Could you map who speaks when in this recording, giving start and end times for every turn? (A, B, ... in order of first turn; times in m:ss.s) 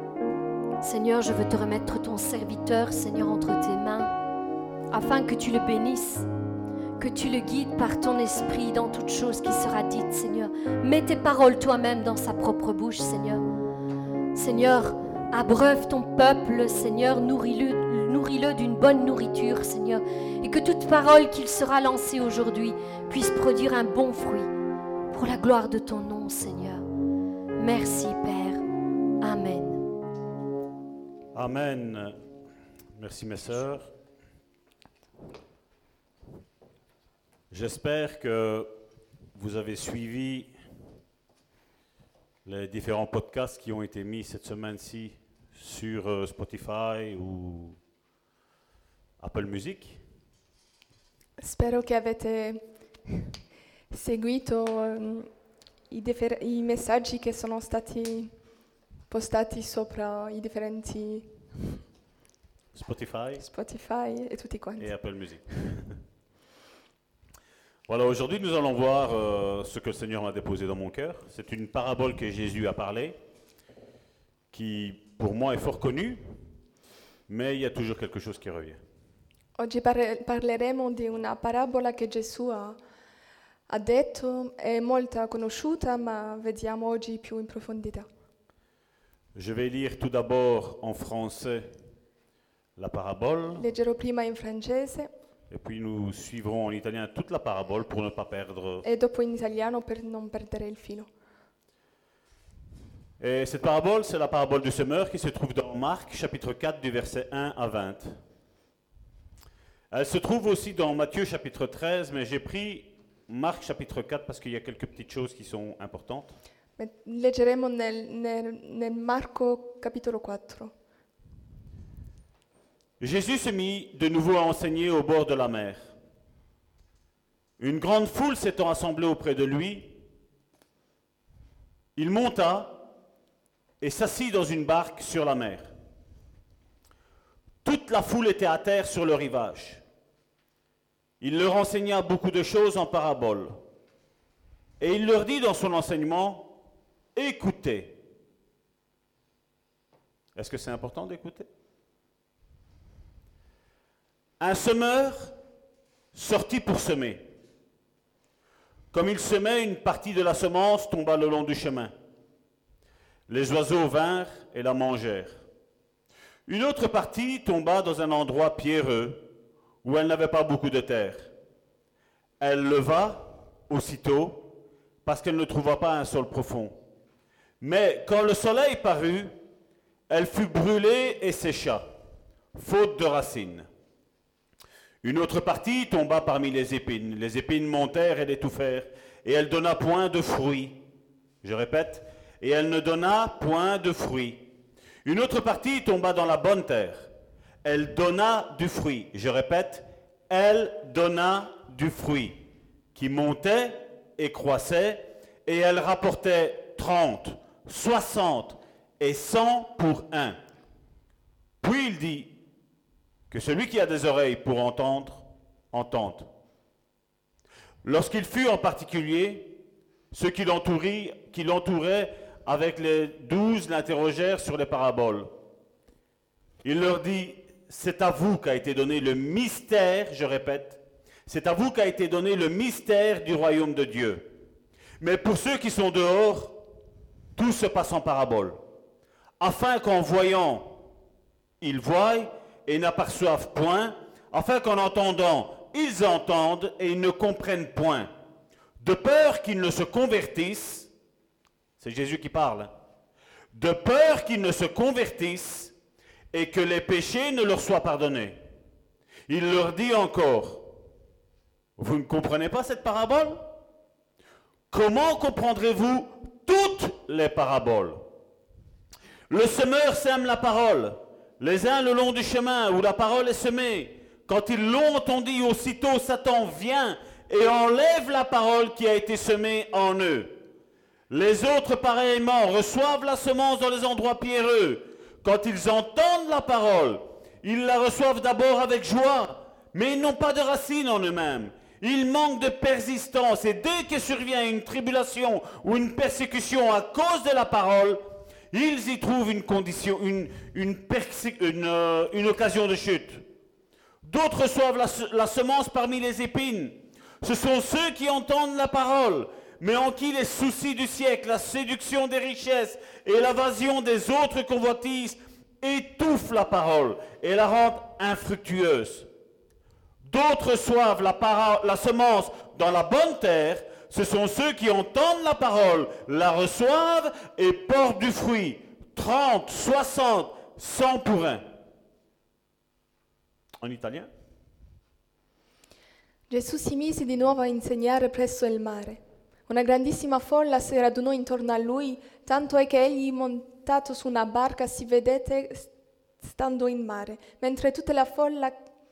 0:00.8-0:04.1 A
0:04.9-0:06.3 A
0:07.0-0:13.5 A
0:14.3-0:24.5 A
0:25.1-0:26.8 A
0:27.6-0:28.6 A
0:29.2-0:29.9 A
0:31.4-0:32.2 B
0:33.0-0:33.9 B
0:37.5-0:38.7 B
0:39.4-0:40.5 B
0:42.4-0:47.8 B
0:49.2-0:50.0 B
0:51.4-0:53.2 C
0:53.9-0:55.3 C
0:55.9-0:58.3 C
0:59.1-1:01.3 C
1:02.7-1:03.5 B
1:03.4-1:04.9 C
1:04.8-1:06.0 B
1:07.9-1:13.2 B
1:14.5-1:16.2 B
1:17.3-1:18.8 B
1:19.6-1:22.8 C
1:23.7-1:28.1 C
1:29.4-1:31.7 B
1:32.8-1:33.7 B
1:33.5-1:35.1 C
1:35.5-1:38.8 B
1:38.8-1:41.1 C
1:43.2-1:48.2 B
1:49.9-1:56.3 B
1:56.8-2:00.7 C
2:03.0-2:05.9 B
2:07.6-2:10.0 B
2:12.0-2:12.8 B
2:13.8-2:15.7 B
2:17.6-2:19.8 B
2:21.2-2:23.6 B
2:24.8-2:26.6 B
2:27.2-2:28.0 B
2:30.4-2:31.5 B
2:34.4-2:35.3 B
2:36.1-2:37.3 B
2:38.9-2:41.9 B
2:43.3-2:45.4 B
2:46.5-2:49.3 B
2:49.8-2:51.3 B
2:52.4-2:54.5 B
2:55.0-2:56.8 B
2:57.6-2:59.4 B
3:00.1-3:01.8 B
3:02.5-3:03.7 B
3:05.0-3:10.8 B
3:11.4-3:14.5 B
3:15.0-3:17.1 B
3:17.6-3:30.4 B
3:31.6-3:32.4 B
3:33.3-3:36.3 B
3:37.8-3:39.6 B
3:40.1-3:45.3 B
3:46.6-3:54.3 B
3:55.0-3:56.6 B
3:57.4-3:58.6 B
3:59.4-4:00.8 B
4:01.6-4:08.1 B
4:08.8-4:10.9 B
4:11.8-4:12.7 B
4:13.5-4:15.7 B
4:16.3-4:18.4 B
4:19.3-4:20.7 B
4:21.8-4:23.5 B
4:24.7-4:28.0 B
4:29.3-4:40.4 B
4:41.1-5:03.2 B
5:04.0-5:19.1 B
5:20.0-5:31.5 B
5:33.6-5:34.1 B
5:36.3-5:45.7 C
5:46.2-5:48.6 C